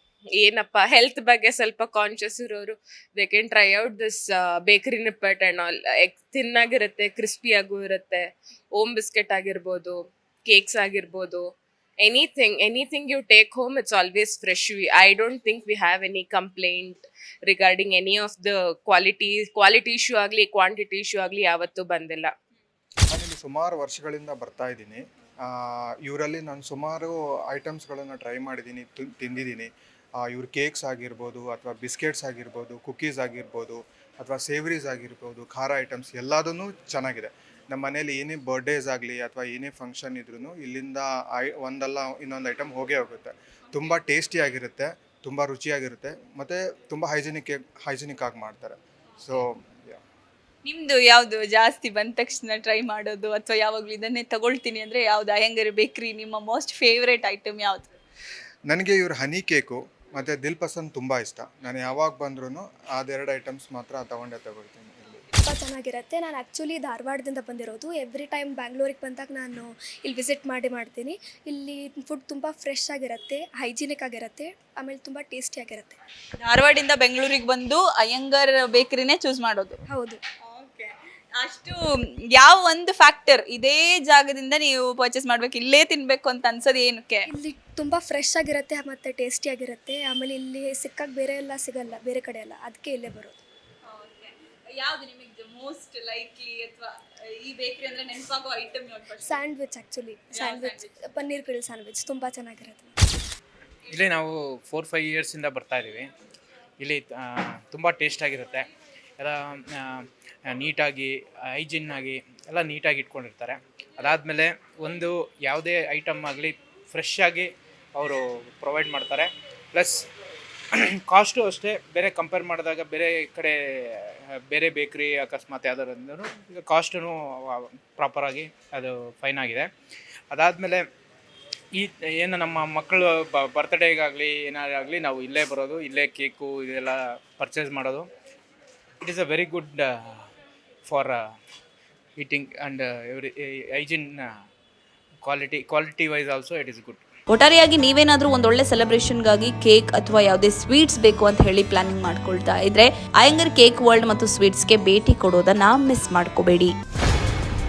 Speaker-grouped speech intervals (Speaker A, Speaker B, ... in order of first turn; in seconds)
Speaker A: 0.4-11.5, 12.0-22.3
Speaker B: 23.1-50.0, 58.6-65.2
Speaker C: 50.6-57.9, 76.4-79.8, 80.5-81.8, 82.3-87.3, 93.9-99.2, 100.3-100.9
Speaker D: 65.4-76.0, 79.9-80.2, 87.2-93.4, 99.2-103.0
Speaker E: 103.9-106.1, 106.8-120.1, 120.7-129.7, 130.3-130.8, 131.7-138.1, 139.0-140.3, 140.9-141.2, 142.2-144.3, 145.2-147.0
Speaker F: 147.3-156.7